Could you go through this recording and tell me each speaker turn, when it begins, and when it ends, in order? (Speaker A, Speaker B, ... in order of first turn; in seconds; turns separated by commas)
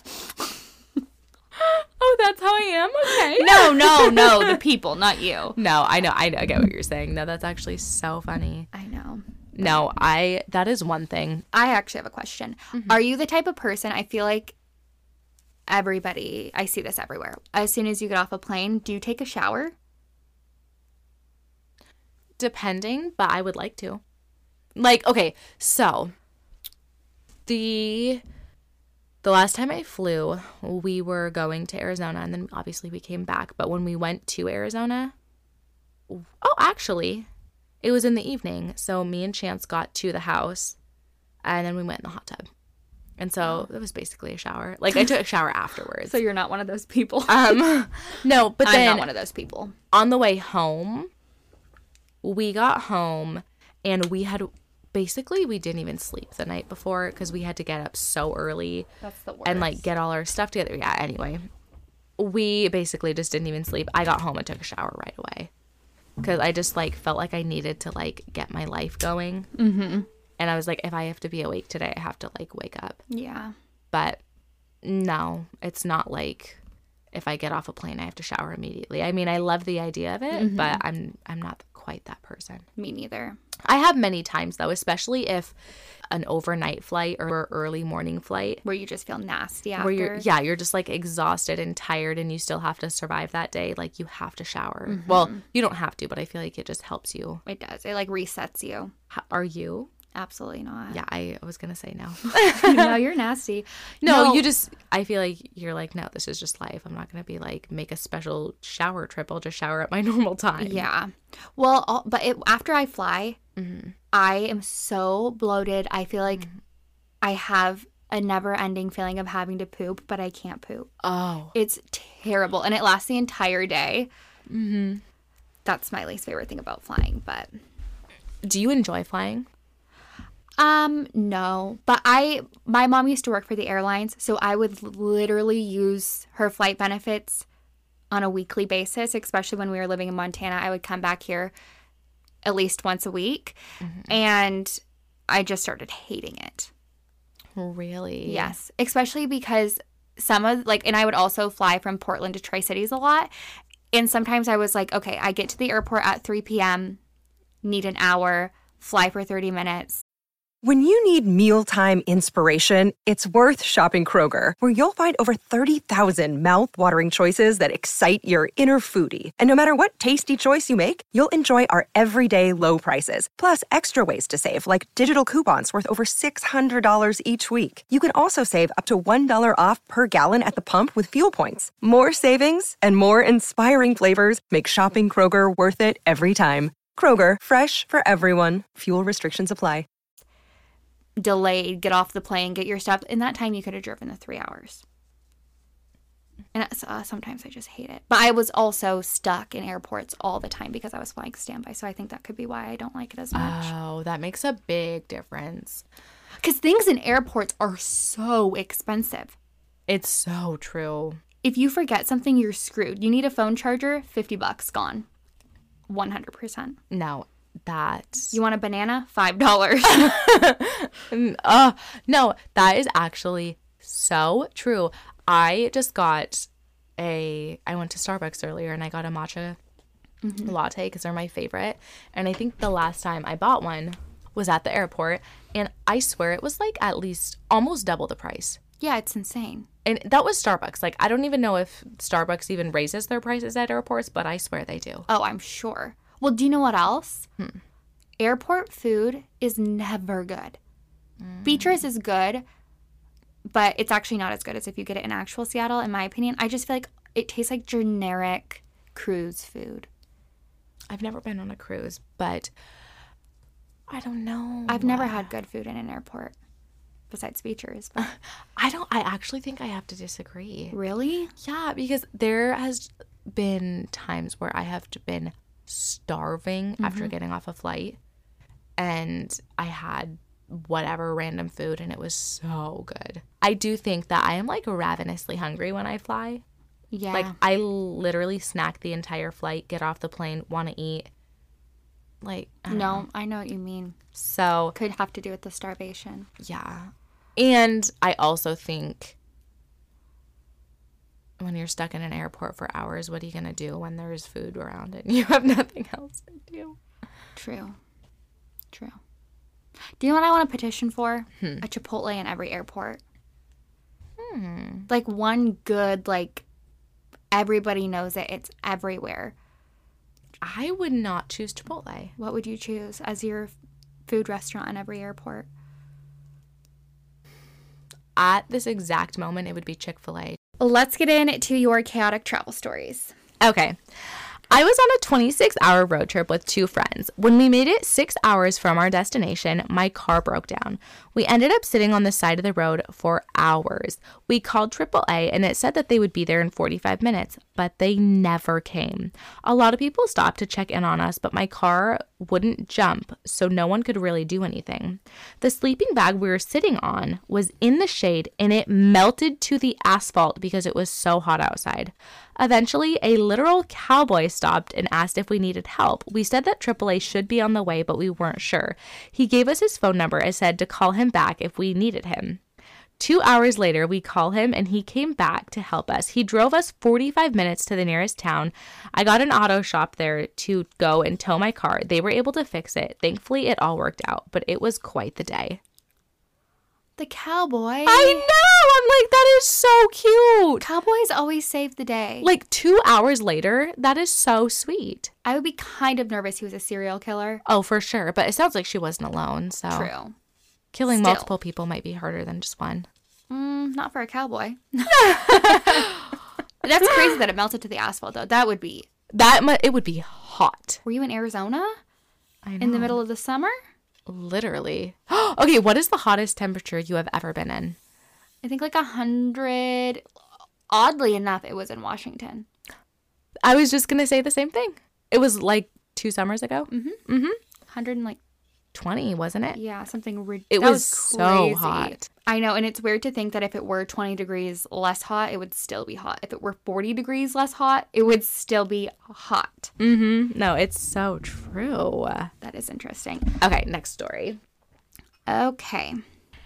Speaker A: 1.5-4.6, Speaker B: 3.1-5.6, Speaker A: 5.5-8.7, Speaker B: 8.7-9.8, Speaker A: 9.5-11.4, Speaker B: 11.5-14.5, Speaker A: 12.7-13.0, Speaker B: 15.7-19.7, Speaker A: 22.4-24.0, Speaker A: 24.8-26.1, Speaker A: 27.4-28.2, Speaker A: 29.2-35.1, Speaker A: 36.1-37.3, Speaker A: 37.8-40.8, Speaker A: 41.4-42.5, Speaker A: 43.2-46.2, Speaker B: 46.0-47.6, Speaker A: 47.3-49.1, Speaker B: 48.6-49.8, Speaker A: 49.9-51.1, Speaker A: 52.2-58.9, Speaker B: 59.0-59.8, Speaker A: 59.4-61.5, Speaker A: 62.2-65.5, Speaker A: 66.2-69.5, Speaker B: 69.5-70.1, Speaker A: 70.4-73.0, Speaker B: 73.1-73.5, Speaker A: 73.9-74.2, Speaker A: 74.8-76.6, Speaker A: 77.1-82.7, Speaker B: 80.3-80.8, Speaker B: 82.8-83.4, Speaker A: 83.6-85.5, Speaker A: 86.1-88.6, Speaker B: 88.6-90.2, Speaker A: 89.8-97.4, Speaker B: 94.9-95.4, Speaker B: 97.5-98.9, Speaker A: 99.1-99.9, Speaker B: 100.1-101.0, Speaker A: 100.9-103.0, Speaker B: 102.4-104.5, Speaker A: 104.0-110.8, Speaker B: 110.6-113.4, Speaker A: 113.6-113.9, Speaker B: 114.1-116.5, Speaker B: 117.2-120.9, Speaker A: 121.0-121.5, Speaker B: 121.5-124.1, Speaker A: 124.5-125.0, Speaker B: 125.6-127.5, Speaker A: 128.4-129.5, Speaker B: 130.6-137.4, Speaker B: 138.1-141.5, Speaker B: 142.4-146.7, Speaker A: 143.8-144.1, Speaker A: 147.5-148.5, Speaker B: 148.2-153.3, Speaker B: 153.9-157.0, Speaker B: 157.6-160.0, Speaker C: 160.6-189.8, Speaker B: 191.2-194.8, Speaker B: 196.5-203.7, Speaker A: 203.3-205.8, Speaker B: 206.4-209.3, Speaker A: 209.9-211.2, Speaker B: 211.4-215.1, Speaker B: 215.9-216.8, Speaker A: 216.9-218.3, Speaker B: 218.3-220.2, Speaker A: 219.9-229.6, Speaker B: 230.2-230.5, Speaker A: 230.4-238.6, Speaker B: 238.8-239.7, Speaker A: 239.8-245.1, Speaker B: 245.1-247.3, Speaker B: 248.2-250.6, Speaker A: 251.2-251.8, Speaker B: 251.4-252.4, Speaker B: 253.5-259.9, Speaker A: 260.9-262.5, Speaker A: 263.9-265.3, Speaker B: 264.7-266.3, Speaker B: 267.1-268.1, Speaker A: 268.0-270.8, Speaker B: 270.7-271.3, Speaker A: 271.4-278.0, Speaker B: 276.8-277.1, Speaker A: 278.8-286.4, Speaker B: 286.9-287.4, Speaker A: 287.1-291.1, Speaker A: 292.2-293.1, Speaker B: 292.7-294.0, Speaker A: 294.1-294.8, Speaker B: 294.8-296.3, Speaker A: 296.4-299.1, Speaker A: 301.4-306.8, Speaker B: 307.4-307.8, Speaker B: 308.7-309.0, Speaker B: 310.0-313.0, Speaker A: 314.2-314.9, Speaker B: 314.9-316.4, Speaker B: 317.3-319.3, Speaker A: 320.4-322.1, Speaker B: 322.2-323.5, Speaker B: 324.1-325.5, Speaker A: 328.1-330.4, Speaker B: 330.6-333.1, Speaker A: 333.4-333.8, Speaker A: 334.5-372.4, Speaker A: 373.0-385.6, Speaker B: 387.0-388.3, Speaker A: 387.9-390.6, Speaker B: 390.6-392.3, Speaker A: 392.2-395.1, Speaker B: 395.2-397.4, Speaker A: 397.4-399.9, Speaker B: 399.7-400.1, Speaker A: 400.7-402.9, Speaker B: 400.9-401.3, Speaker B: 403.3-406.0, Speaker A: 405.0-405.9, Speaker B: 406.6-408.9, Speaker A: 409.1-410.8, Speaker B: 410.8-411.8, Speaker A: 412.4-413.0, Speaker B: 412.6-413.6, Speaker A: 414.1-417.8, Speaker B: 418.4-420.0, Speaker B: 420.7-422.5, Speaker A: 423.4-427.4, Speaker B: 426.7-427.0, Speaker B: 427.7-428.2, Speaker A: 428.7-429.6, Speaker B: 429.5-439.7, Speaker A: 430.5-432.1, Speaker A: 439.8-442.3, Speaker B: 442.4-443.3, Speaker A: 443.4-444.4, Speaker B: 445.3-446.0